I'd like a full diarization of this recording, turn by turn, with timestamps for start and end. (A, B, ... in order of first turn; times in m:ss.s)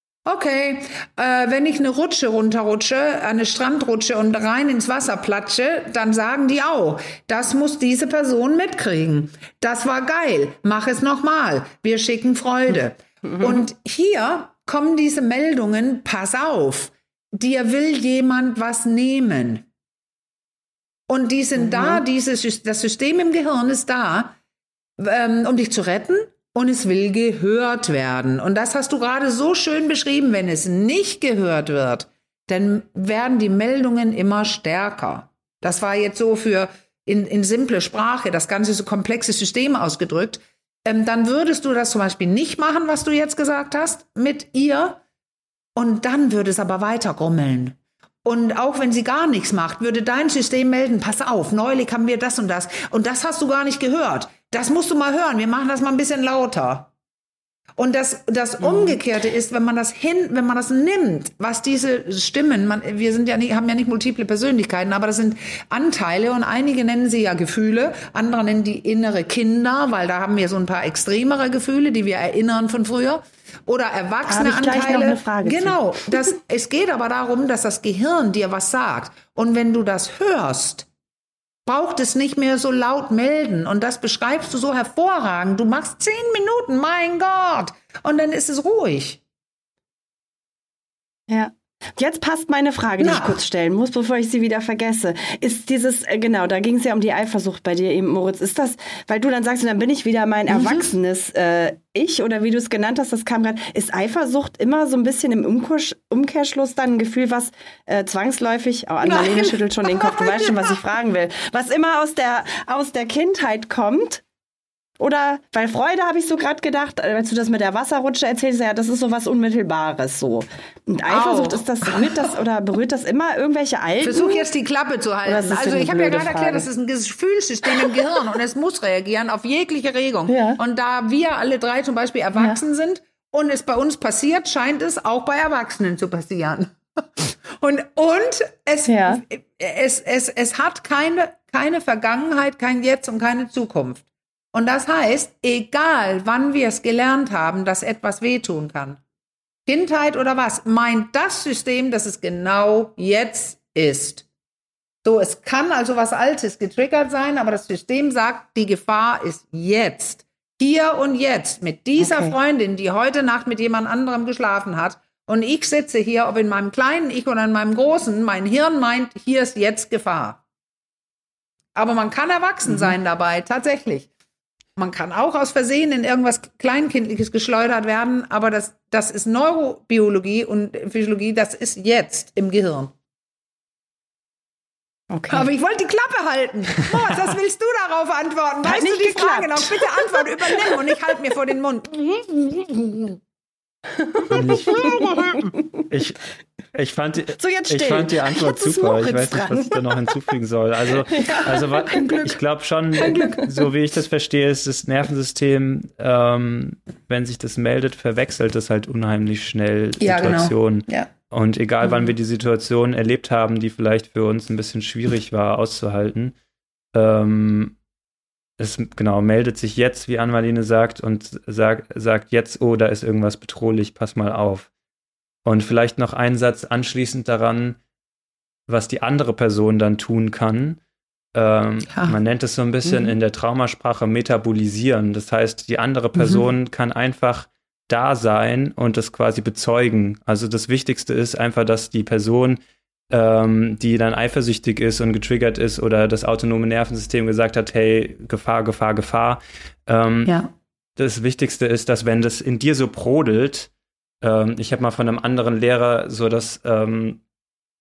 0:00.2-0:19.6 A
0:21.1-0:24.4 A
0:25.0-0:45.0 A
0:45.8-0:56.9 A
0:57.8-1:20.9 A
1:14.3-1:15.8 B
1:21.6-1:29.2 A
1:31.3-1:54.2 B
1:33.0-1:33.4 A
1:40.5-1:40.9 A
1:49.0-1:50.8 A
1:55.0-2:04.5 B
2:01.1-2:02.3 A
2:04.0-2:29.0 A
2:05.2-2:06.7 B
2:10.3-2:10.6 B
2:18.9-2:19.2 B
2:29.6-2:34.2 A
2:35.0-2:50.4 A
2:42.0-2:42.3 B
2:51.7-2:54.1 A
2:54.8-3:02.9 A
3:05.1-3:05.5 B
3:05.3-3:13.2 A
3:08.6-3:10.9 B
3:14.3-3:16.2 C
3:14.3-3:15.4 B
3:14.4-3:15.0 A
3:16.7-3:36.3 C
3:17.4-3:20.1 B
3:21.1-3:22.1 B
3:22.0-3:22.3 A
3:23.0-3:23.4 B
3:30.0-3:31.1 A
3:36.9-3:37.7 C
3:38.6-3:44.7 C
3:45.4-3:47.8 C
3:48.7-3:50.8 C
3:51.3-4:02.6 C
3:52.9-3:53.1 A
3:56.2-3:56.4 A
4:03.1-4:10.4 C
4:11.0-4:13.7 C
4:14.2-4:17.2 C